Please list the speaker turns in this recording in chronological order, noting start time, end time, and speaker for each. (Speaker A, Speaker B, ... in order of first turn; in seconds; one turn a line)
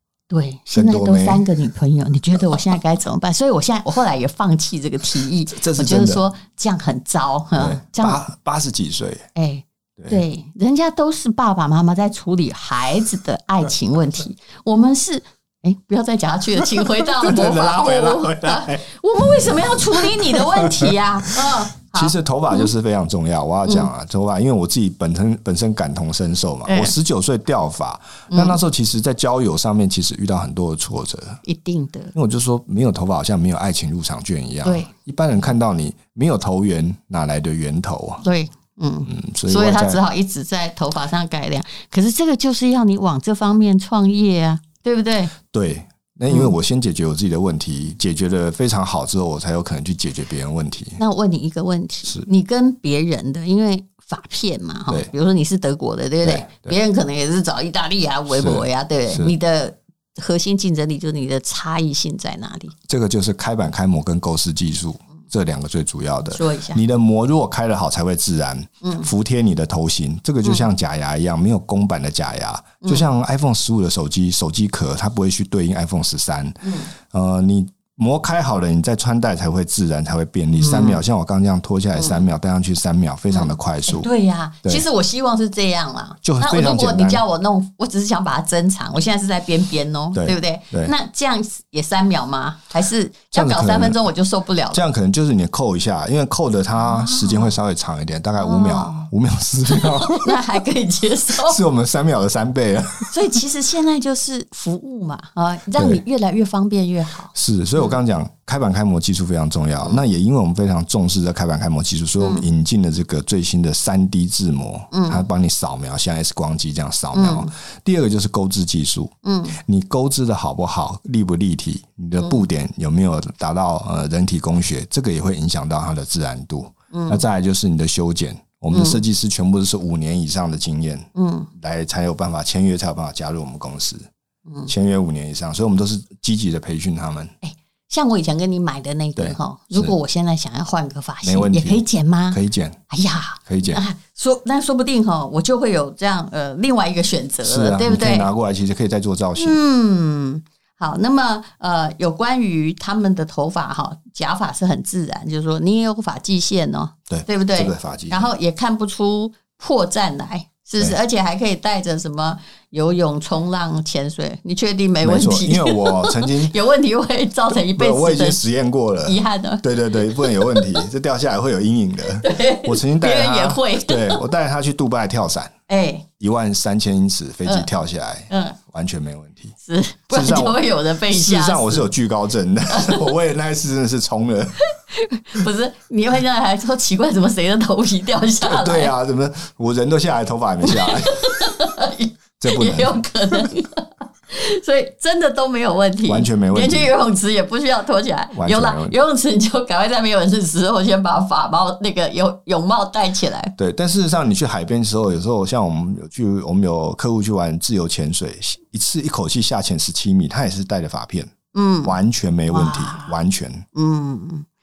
Speaker A: 0.3-8.2
Speaker B: 0.7-1.4
Speaker B: 5.5-6.2
Speaker B: 7.5-9.3
Speaker A: 9.3-22.7
Speaker B: 10.0-10.2
Speaker B: 17.1-31.4
Speaker A: 26.7-26.9
Speaker A: 28.3-28.6
Speaker A: 31.4-32.1
Speaker B: 32.1-38.2
Speaker A: 34.6-34.9
Speaker A: 38.2-45.3
Speaker B: 39.1-40.0
Speaker B: 45.5-51.0
Speaker A: 51.0-62.7
Speaker B: 56.2-56.8
Speaker B: 58.3-59.3
Speaker B: 62.9-84.1
Speaker A: 66.3-66.8
Speaker A: 68.8-69.1
Speaker A: 76.6-76.9
Speaker A: 80.5-81.0
Speaker A: 83.3-94.8
Speaker B: 86.2-87.2
Speaker B: 90.1-90.9
Speaker B: 93.3-94.0
Speaker B: 94.7-100.6
Speaker A: 96.8-97.5
Speaker A: 98.4-99.1
Speaker A: 99.7-101.6
Speaker B: 101.3-103.4
Speaker A: 103.1-107.9
Speaker B: 105.8-106.0
Speaker B: 107.3-134.1
Speaker A: 112.2-112.4
Speaker A: 114.9-115.2
Speaker A: 117.1-117.5
Speaker A: 119.2-119.5
Speaker A: 126.9-127.2
Speaker A: 128.7-129.0
Speaker A: 131.1-131.5
Speaker B: 134.7-137.3
Speaker A: 137.4-148.3
Speaker B: 139.2-139.9
Speaker B: 141.2-142.8
Speaker B: 143.4-143.8
Speaker B: 147.4-149.6
Speaker A: 149.4-168.4
Speaker B: 157.1-158.3
Speaker B: 165.0-166.6
Speaker B: 167.5-175.5
Speaker A: 169.0-170.8
Speaker A: 172.2-174.2
Speaker A: 175.7-176.1
Speaker B: 176.2-179.5
Speaker A: 178.3-178.6
Speaker A: 179.6-181.9
Speaker B: 180.1-184.6
Speaker A: 182.7-183.0
Speaker A: 184.9-188.9
Speaker B: 188.4-191.5
Speaker A: 190.6-203.5
Speaker B: 192.4-193.5
Speaker B: 196.1-196.9
Speaker B: 198.3-198.9
Speaker B: 203.6-211.3
Speaker A: 211.5-212.0
Speaker B: 211.8-213.7
Speaker A: 212.5-213.2
Speaker A: 213.7-214.4